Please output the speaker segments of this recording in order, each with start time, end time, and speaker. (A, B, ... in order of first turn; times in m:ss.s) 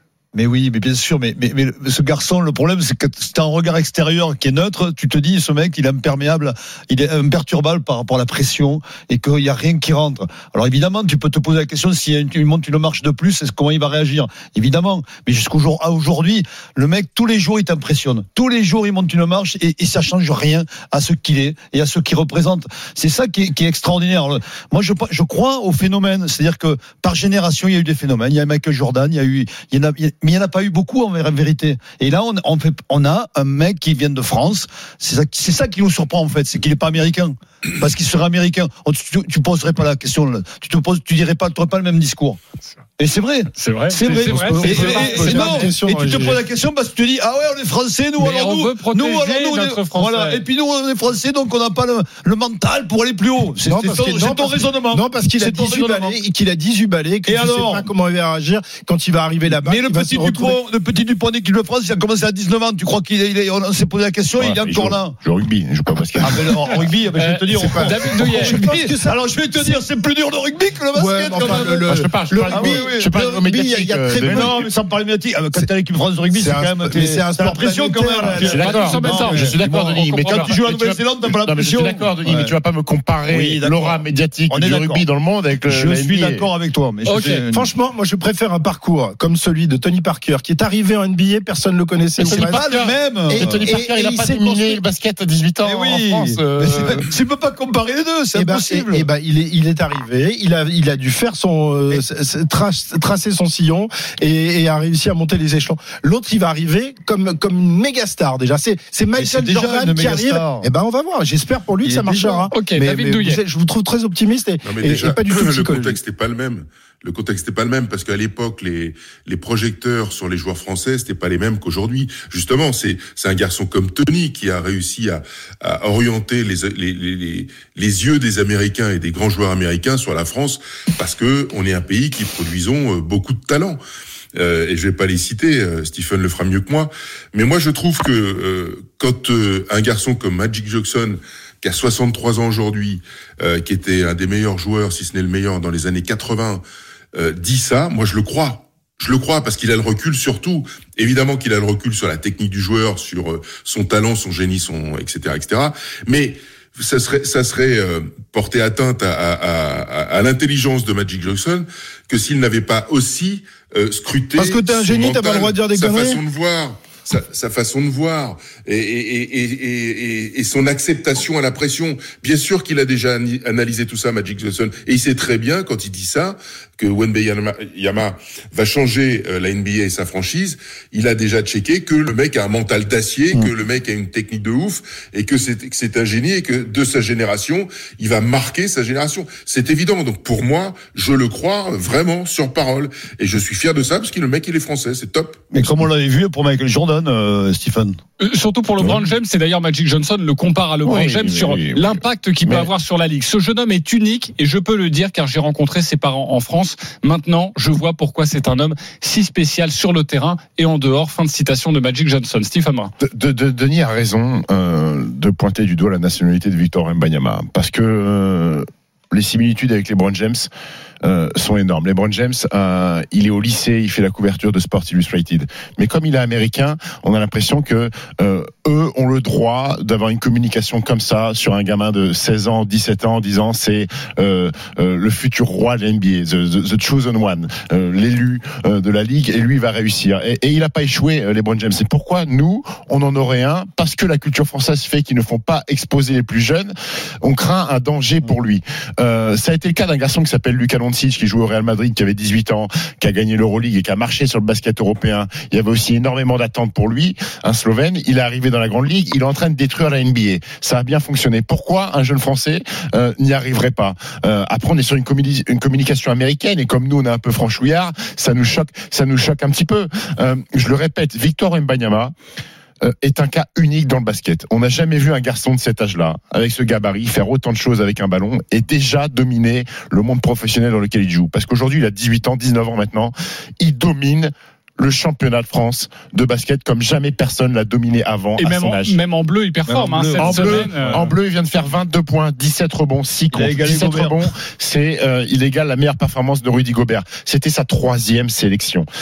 0:00.3-0:42.4 A
0:43.0-0:56.2 A
0:43.5-0:45.7 B
0:44.1-0:46.4 C
0:48.2-0:50.4 B
0:53.6-1:00.6 C
0:57.3-0:57.9 A
0:59.5-1:05.2 A
1:04.4-1:06.9 D
1:06.2-1:13.2 A
1:07.2-1:08.7 B
1:07.6-1:09.8 C
1:10.9-1:14.7 C
1:11.8-1:14.6 D
1:14.1-1:22.5 A
1:16.3-1:19.4 C
1:18.3-1:26.5 D
1:18.6-1:20.6 B
1:23.3-1:25.0 A
1:25.7-1:27.7 A
1:27.0-1:27.4 B
1:27.5-1:32.7 C
1:32.2-1:33.7 A
1:32.2-1:37.0 D
1:33.3-1:34.8 C
1:35.6-1:39.1 A
1:38.4-1:56.0 C
1:49.2-1:50.7 A
1:51.8-1:52.6 A
1:52.5-1:53.4 B
1:54.6-2:13.8 E
2:14.4-2:26.6 E
2:27.1-3:15.4 E
2:44.4-2:46.2 C
3:15.5-3:18.0 A
3:18.2-3:32.9 B
3:18.8-3:19.1 D
3:20.8-3:22.7 D
3:33.0-3:40.5 D
3:41.0-4:32.2 D
4:32.8-4:49.0 D
4:48.4-4:51.0 B
4:49.7-4:51.1 A
4:50.2-4:58.9 D
4:53.3-4:54.2 A